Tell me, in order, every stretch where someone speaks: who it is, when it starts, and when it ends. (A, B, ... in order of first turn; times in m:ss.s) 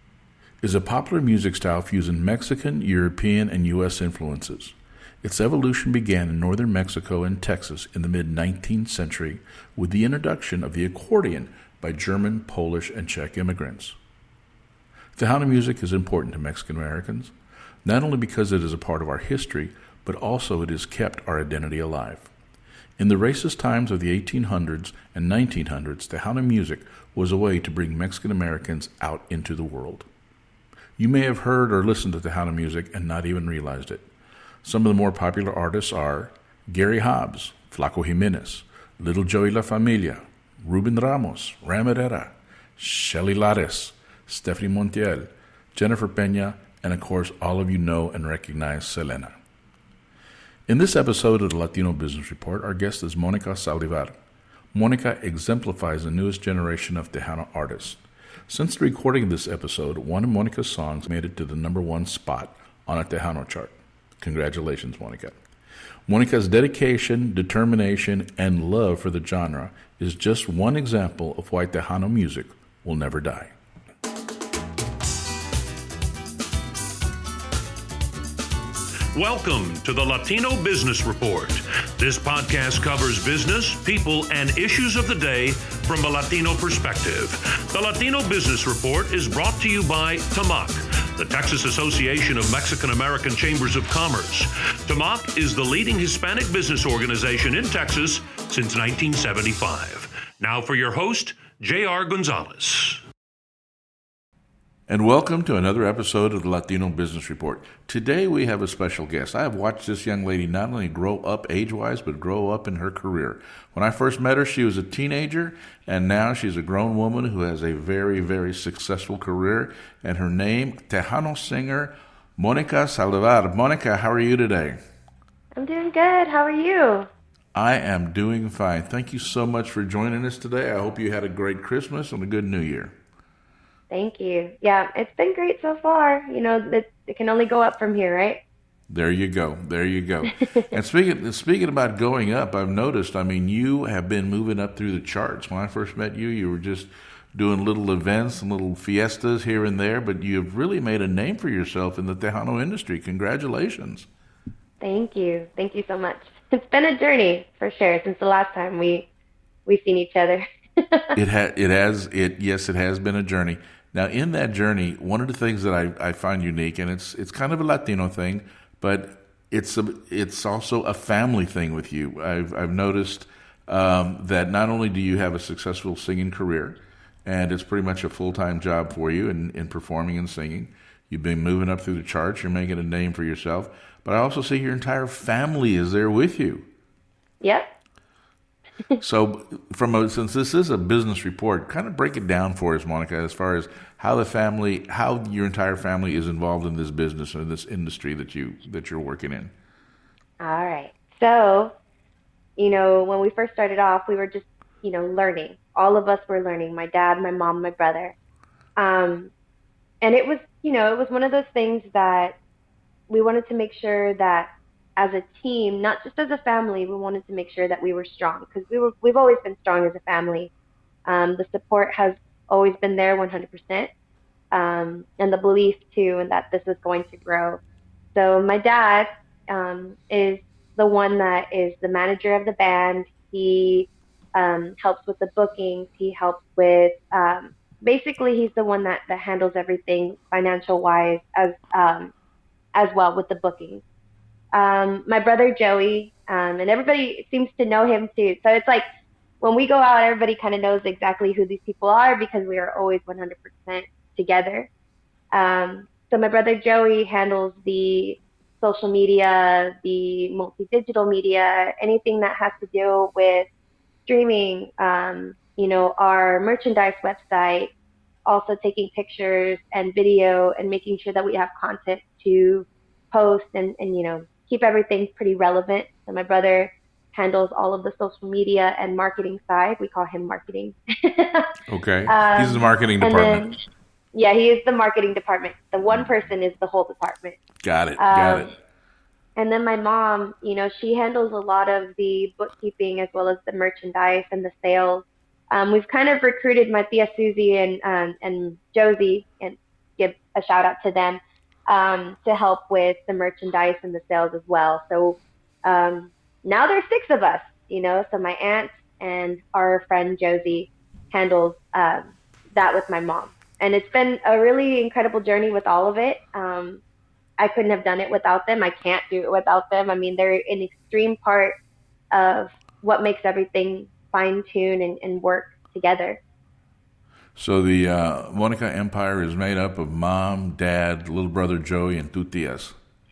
0:00.6-0:14.0 A
0:15.2-0:17.3 A
0:17.8-0:22.3 A
0:23.0-0:30.1 A
0:31.0-0:34.0 A
0:34.6-0:49.4 A
0:50.7-0:54.2 A
0:54.7-1:05.4 A
1:06.1-1:13.5 A
1:19.1-1:43.0 B
1:44.9-2:04.8 A
2:05.6-2:07.1 C
2:07.6-2:13.0 A
2:13.9-2:18.4 C
2:18.9-2:34.1 A
2:34.8-2:39.1 C
2:39.7-2:41.2 C
2:41.2-3:06.7 A
3:07.4-3:07.7 C
3:09.0-3:19.5 A
3:20.4-3:21.7 C
3:22.6-3:28.1 C
3:28.8-3:29.3 C
3:30.0-3:32.4 C
3:33.1-3:40.5 C
3:41.1-3:43.9 C
3:44.5-3:47.6 C
3:48.2-4:02.1 C
4:02.8-4:03.8 C
4:04.5-4:08.8 C
4:09.4-4:14.7 C
4:15.3-4:23.5 C
4:24.1-4:27.7 C
4:28.3-4:41.5 C
4:41.7-4:43.5 A
4:42.1-4:43.6 C
4:44.1-4:47.4 C
4:47.6-4:48.5 A
4:48.0-4:48.5 C
4:49.4-5:16.8 C
5:17.4-5:21.6 C
5:22.1-5:26.2 C
5:27.4-5:32.8 A